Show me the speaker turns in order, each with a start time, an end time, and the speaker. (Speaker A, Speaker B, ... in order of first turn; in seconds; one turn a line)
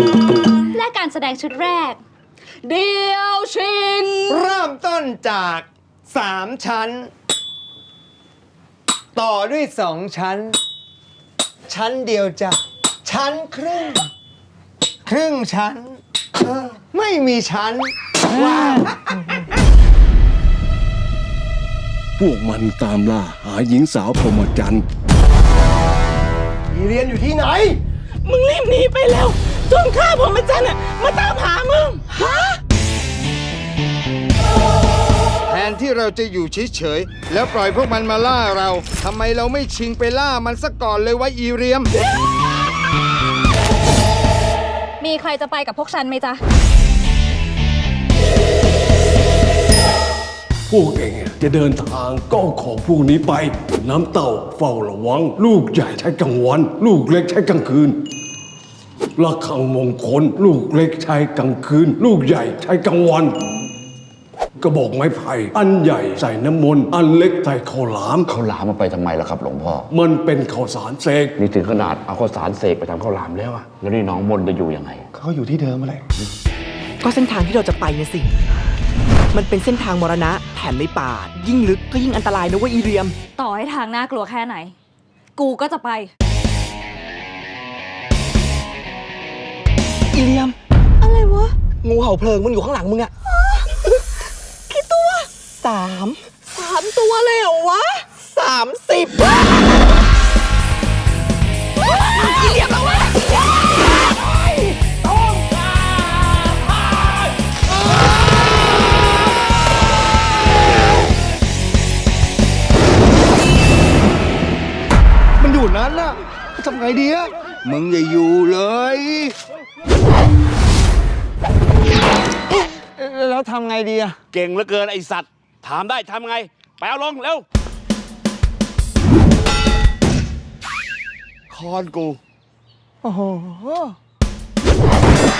Speaker A: 0.7-2.0
Speaker A: 2.7-4.2
Speaker B: 4.3-7.1
Speaker B: 9.2-10.6
Speaker B: 11.7-14.1
Speaker B: 15.1-17.9
Speaker C: 22.2-24.8
Speaker D: 28.3-32.5
Speaker E: 35.5-41.9
Speaker A: 45.0-46.4
Speaker C: 50.7-58.0
Speaker C: 59.2-63.4
Speaker C: 64.6-68.3
Speaker F: 68.3-69.9
Speaker C: 69.9-71.3
Speaker F: 71.4-75.1
Speaker D: 77.0-78.3
Speaker D: 79.3-83.2
Speaker A: 83.4-84.8
Speaker A: 85.4-86.1
Speaker D: 90.1-93.6
Speaker D: 94.7-99.6
Speaker D: 102.2-103.3
Speaker E: 115.6-116.0
Speaker E: 117.7-119.3
Speaker B: 123.0-124.2
Speaker G: 124.3-127.4
Speaker E: 131.5-131.9
Speaker B: 133.1-133.9